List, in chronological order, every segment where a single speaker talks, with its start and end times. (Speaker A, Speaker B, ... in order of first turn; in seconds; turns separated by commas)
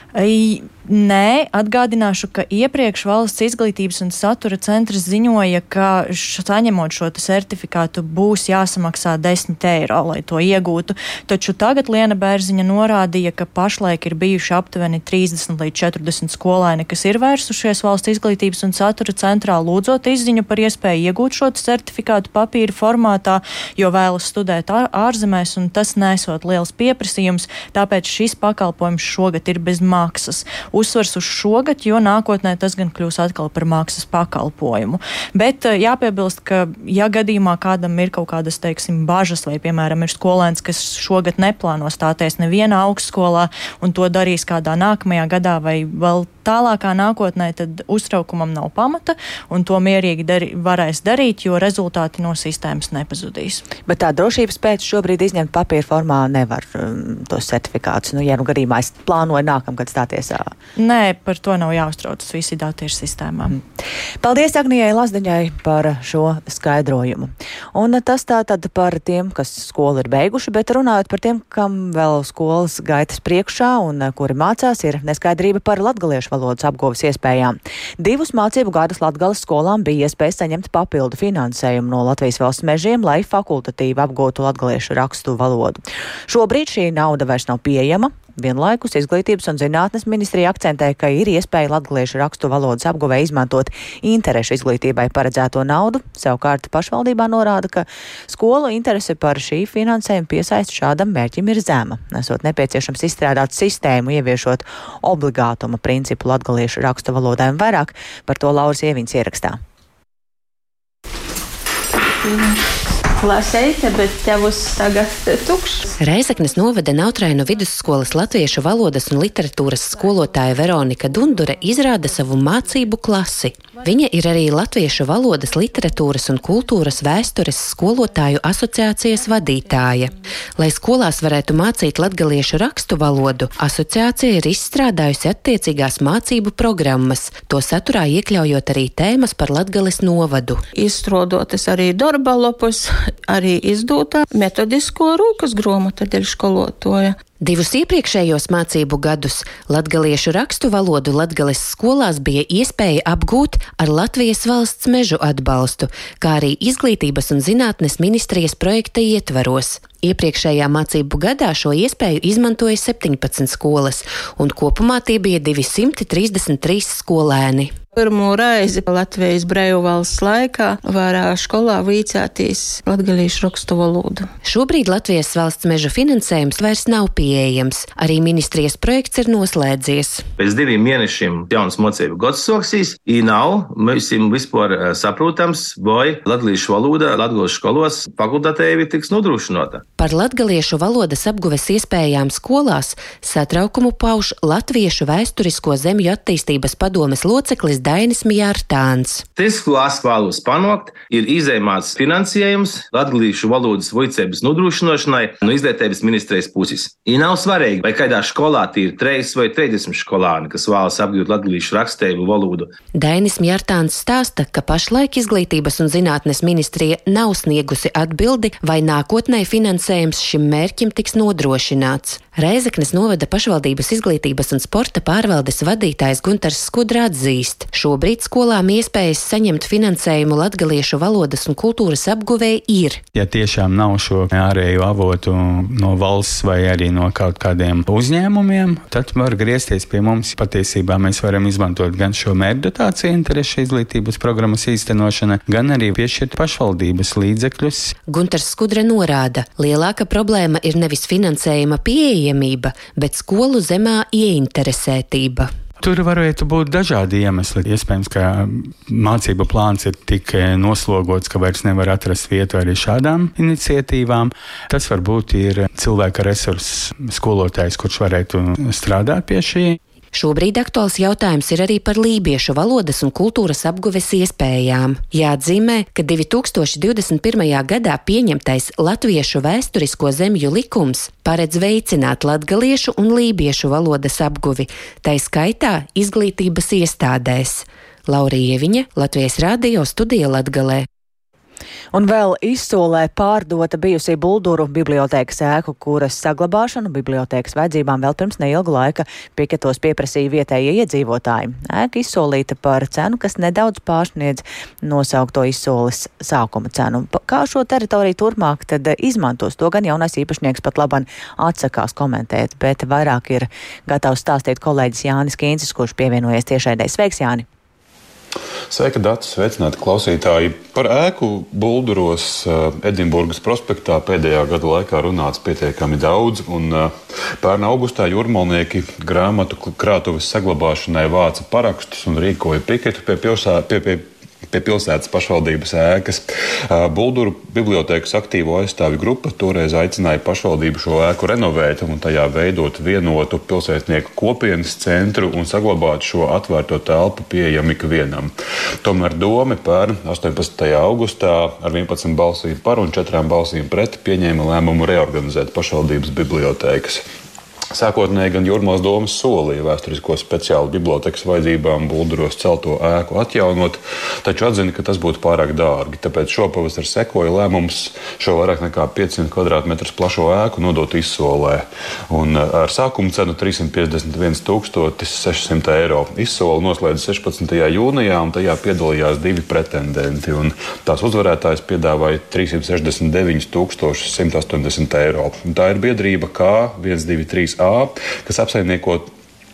Speaker A: 0.1-53.6, Speaker B: 53.9-60.5, Speaker A: 60.8-63.6, Speaker B: 64.2-109.6, Speaker C: 112.2-115.9, Speaker D: 116.0-140.6, Speaker C: 140.7-147.2, Speaker D: 147.4-167.7, Speaker C: 167.9-174.3, Speaker D: 174.4-180.2, Speaker E: 180.4-189.8, Speaker D: 190.0-199.2, Speaker E: 199.4-212.7, Speaker D: 213.0-233.0, Speaker F: 233.1-247.9, Speaker D: 248.1-255.5, Speaker F: 255.8-269.8, Speaker D: 270.1-290.9, Speaker B: 291.9-317.5, Speaker G: 318.7-348.3, Speaker G: 348.8-357.0, Speaker G: 357.7-389.1